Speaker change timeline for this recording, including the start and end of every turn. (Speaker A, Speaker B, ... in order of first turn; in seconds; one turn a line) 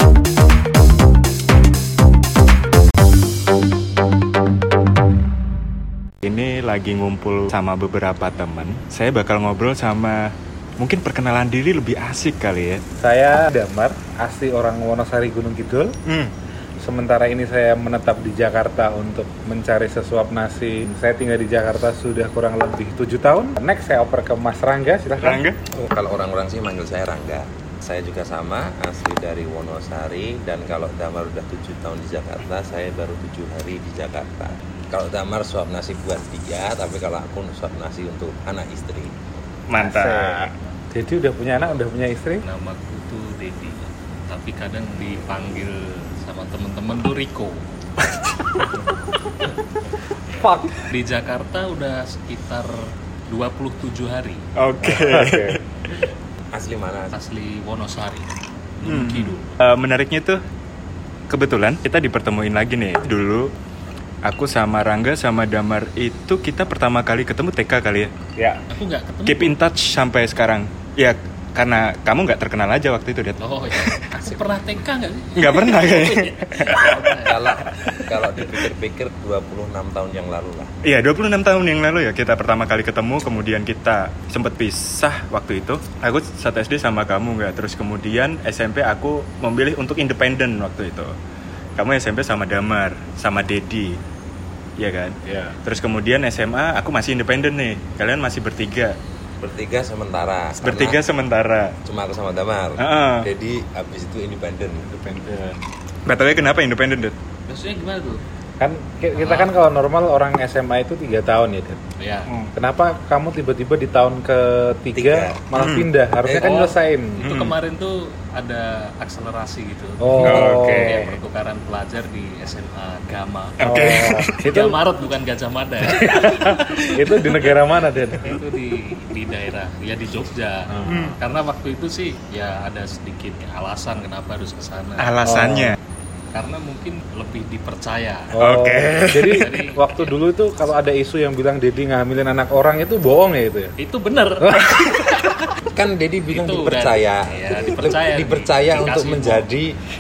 Speaker A: 6.2-12.8
Speaker B: 13.0-15.9
Speaker A: 16.1-16.3
Speaker B: 16.8-25.4
Speaker A: 25.2-25.6
Speaker C: 25.7-39.1
Speaker A: 39.7-40.5
Speaker B: 39.8-42.4
Speaker D: 42.4-47.6
Speaker B: 50.4-50.9
Speaker D: 50.9-52.7
Speaker D: 53.3-54.4
Speaker A: 54.6-55.6
Speaker B: 54.8-55.6
Speaker C: 56.5-57.1
Speaker D: 57.1-58.3
Speaker D: 58.8-59.5
Speaker A: 58.9-60.4
Speaker A: 61.3-63.5
Speaker A: 64.2-68.1
Speaker B: 68.4-68.6
Speaker D: 68.7-69.6
Speaker A: 69.3-74.0
Speaker D: 73.4-78.0
Speaker A: 75.3-77.0
Speaker C: 76.9-80.7
Speaker A: 80.8-91.1
Speaker A: 91.8-94.0
Speaker A: 94.8-99.0
Speaker B: 95.2-95.6
Speaker C: 99.4-101.0
Speaker A: 100.6-101.7
Speaker C: 101.8-104.8
Speaker A: 102.8-103.3
Speaker B: 104.8-105.6
Speaker A: 106.1-107.2
Speaker D: 107.5-108.2
Speaker B: 108.6-111.8
Speaker D: 109.2-109.5
Speaker D: 112.0-112.3
Speaker B: 112.5-117.2
Speaker C: 115.0-115.4
Speaker A: 115.6-115.9
Speaker C: 116.2-116.6
Speaker D: 116.4-127.6
Speaker A: 117.2-117.5
Speaker B: 120.0-121.1
Speaker A: 120.2-121.1
Speaker A: 123.6-124.5
Speaker B: 123.6-124.8
Speaker B: 125.8-128.4
Speaker D: 128.2-135.2
Speaker B: 130.7-131.2
Speaker A: 130.9-131.2
Speaker A: 135.0-135.8
Speaker B: 135.2-135.8
Speaker D: 136.3-138.3
Speaker B: 138.3-143.7
Speaker A: 138.4-139.5
Speaker D: 139.3-140.1
Speaker D: 143.8-144.9
Speaker B: 144.4-145.2
Speaker C: 145.7-149.8
Speaker D: 146.3-149.5